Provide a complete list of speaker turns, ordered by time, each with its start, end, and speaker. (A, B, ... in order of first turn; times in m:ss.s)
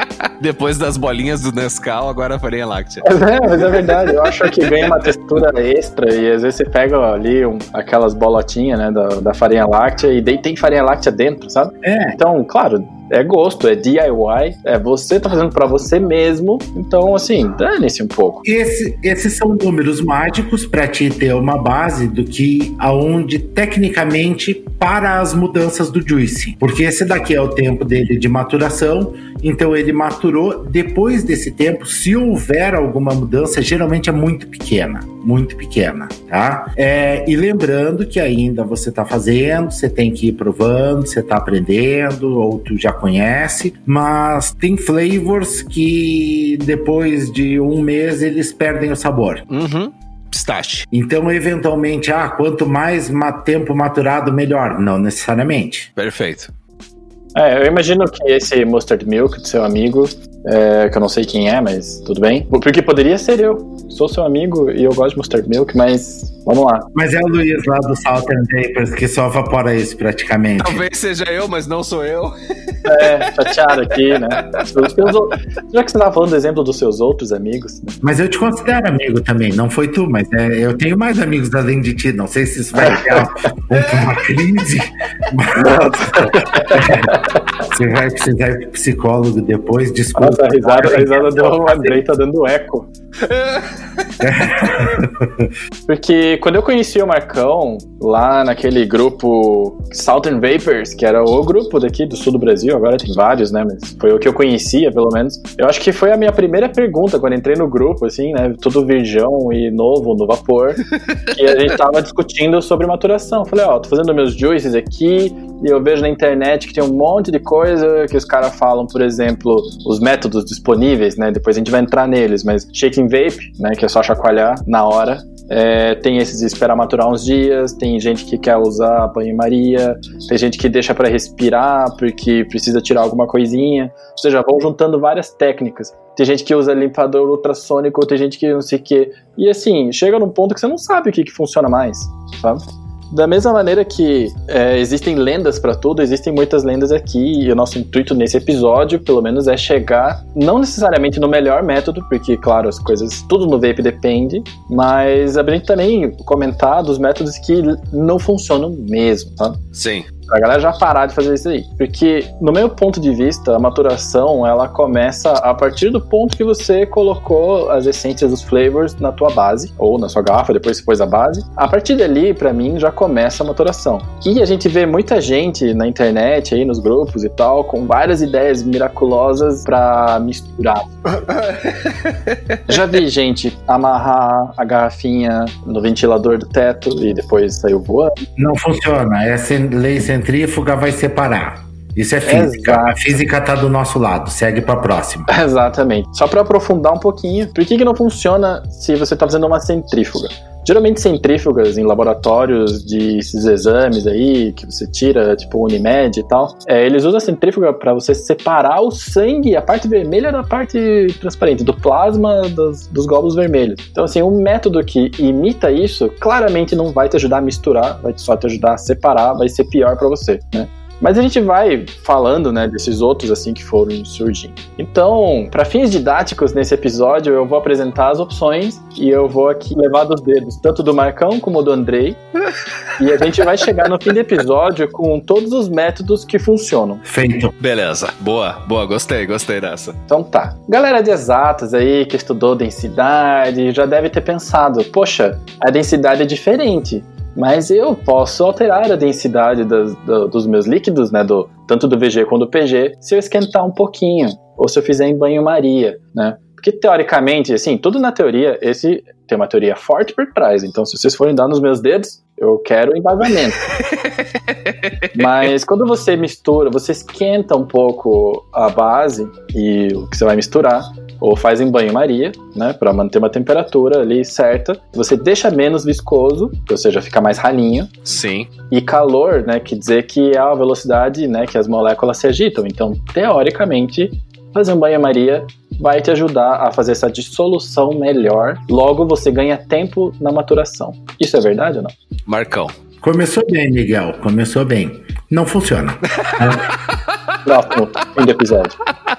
0:00.4-0:05.0 A
0:03.0-0:18.4 B
0:11.8-0:12.2 C
0:18.4-0:49.4 C
0:49.5-0:50.9 A
0:50.9-0:55.9 C
0:56.0-0:56.5 A
0:57.4-1:06.9 B
1:06.9-1:10.8 C
1:10.6-1:13.6 A
1:12.8-1:18.0 B
1:14.1-1:15.2 A
1:18.0-1:32.0 C
1:22.8-1:23.3 B
1:25.6-1:27.2 B
1:30.2-1:32.9 B
1:33.3-1:33.6 A
1:34.2-1:35.5 C
1:35.9-2:39.6 B
2:39.7-2:40.1 A
2:40.3-3:01.2 B
3:01.3-3:02.5 A
3:02.7-3:08.2 B
3:08.4-3:15.3 C
3:12.3-3:13.1 B
3:15.3-3:52.2 B
3:53.0-3:57.0 B
3:57.1-3:57.5 C
3:57.6-4:00.0 A
4:00.1-4:23.7 B
4:23.8-4:25.2 A
4:25.1-4:37.9 B
4:38.1-4:38.5 A
4:38.7-4:51.9 B
4:52.3-4:52.7 A
4:53.0-4:56.7 C
4:56.2-4:56.6 A
4:57.4-4:58.8 B